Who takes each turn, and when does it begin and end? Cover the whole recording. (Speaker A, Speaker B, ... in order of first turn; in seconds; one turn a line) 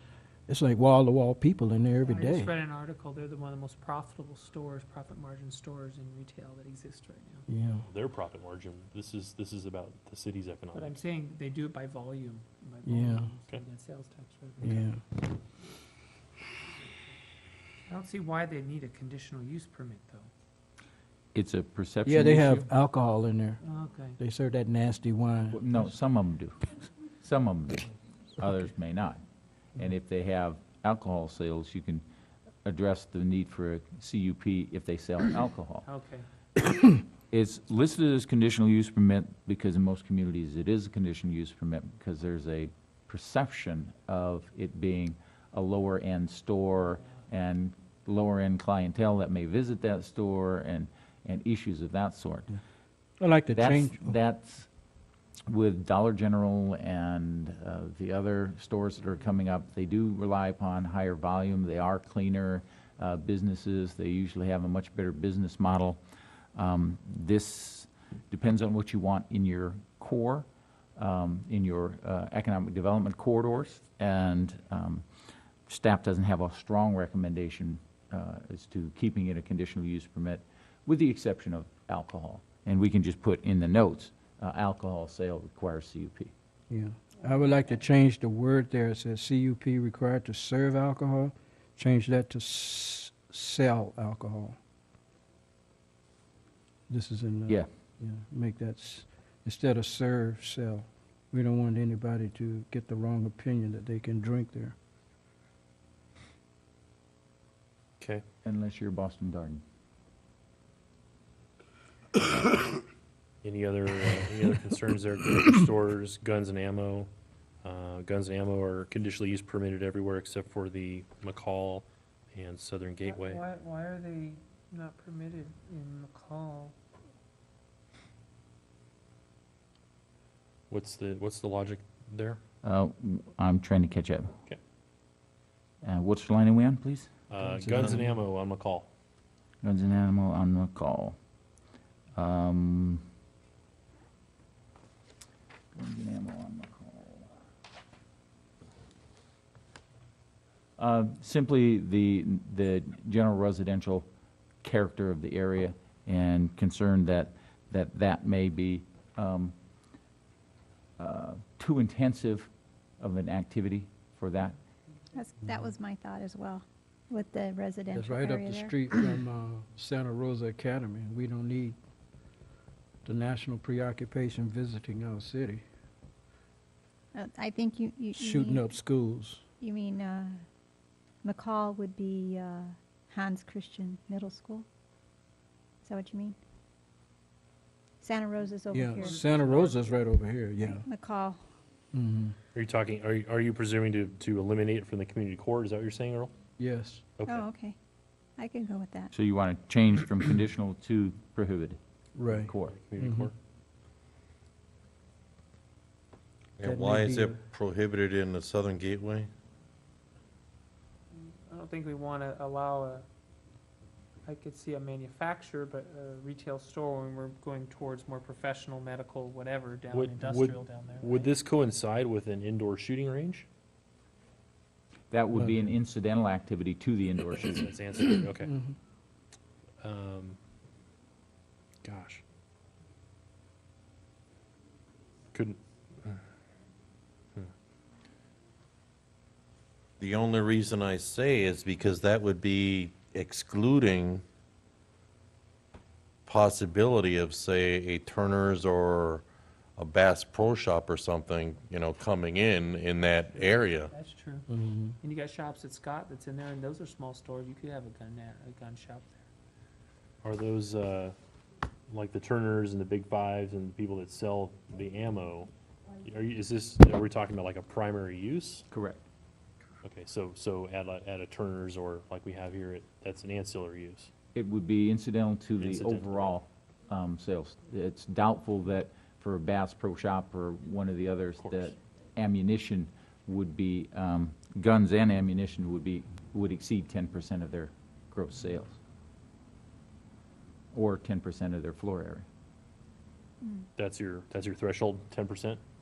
Speaker A: 0.5-2.5
Speaker B: 2.1-7.5
Speaker A: 7.5-7.9
Speaker C: 7.9-11.0
Speaker B: 10.7-14.9
Speaker A: 12.8-13.3
Speaker A: 14.6-15.0
Speaker B: 17.9-20.3
Speaker D: 21.3-22.7
Speaker A: 22.1-23.6
Speaker B: 23.6-24.2
Speaker A: 24.2-25.6
Speaker D: 25.5-29.2
Speaker D: 29.8-32.0
Speaker D: 32.6-35.9
Speaker B: 35.9-36.3
Speaker D: 37.3-52.6
Speaker A: 53.2-54.2
Speaker D: 53.5-54.7
Speaker D: 55.5-66.0
Speaker D: 66.6-70.5
Speaker D: 71.0-75.0
Speaker D: 75.7-86.3
Speaker A: 86.7-94.6
Speaker A: 96.9-104.8
Speaker D: 108.4-109.6
Speaker C: 113.4-117.1
Speaker C: 117.6-123.4
Speaker B: 123.0-126.8
Speaker C: 130.7-132.4
Speaker D: 132.6-134.3
Speaker D: 135.8-137.1
Speaker C: 137.3-138.9
Speaker A: 137.4-138.2
Speaker D: 139.6-141.2
Speaker D: 142.2-143.0
Speaker D: 145.7-147.3
Speaker D: 150.8-154.1
Speaker D: 154.6-159.5
Speaker D: 161.0-162.5
Speaker D: 163.0-164.6
Speaker E: 165.1-168.9
Speaker A: 167.9-171.8
Speaker A: 173.0-175.6
Speaker E: 177.2-178.7
Speaker A: 178.1-179.4
Speaker E: 179.6-180.4
Speaker E: 181.2-184.7
Speaker E: 185.8-186.4
Speaker E: 188.0-189.2
Speaker A: 188.7-190.9
Speaker B: 189.0-190.0
Speaker E: 190.6-191.4
Speaker A: 191.9-192.4
Speaker C: 192.6-196.3
Speaker A: 196.6-197.1
Speaker C: 197.2-197.5
Speaker E: 197.2-197.8
Speaker E: 198.4-199.1
Speaker D: 199.1-202.8
Speaker A: 202.2-203.3
Speaker C: 202.6-203.3
Speaker F: 206.6-209.3
Speaker A: 206.6-207.4
Speaker B: 211.2-213.1
Speaker B: 214.3-221.3
Speaker C: 219.9-223.5
Speaker D: 225.1-227.7
Speaker A: 225.3-225.7
Speaker C: 227.3-228.5
Speaker A: 228.5-228.7
Speaker C: 229.8-230.4
Speaker C: 231.8-232.2
Speaker C: 235.3-236.2
Speaker F: 240.0-244.2
Speaker F: 246.3-249.2
Speaker F: 249.8-253.9
Speaker B: 253.4-254.5
Speaker A: 254.5-254.9
Speaker B: 255.0-259.2
Speaker C: 260.2-261.1
Speaker C: 261.9-265.5
Speaker C: 266.0-268.7
Speaker D: 268.7-269.0
Speaker C: 269.8-274.1
Speaker D: 274.4-288.8
Speaker C: 275.6-276.4
Speaker C: 281.4-281.8
Speaker D: 290.7-292.3
Speaker C: 293.8-295.6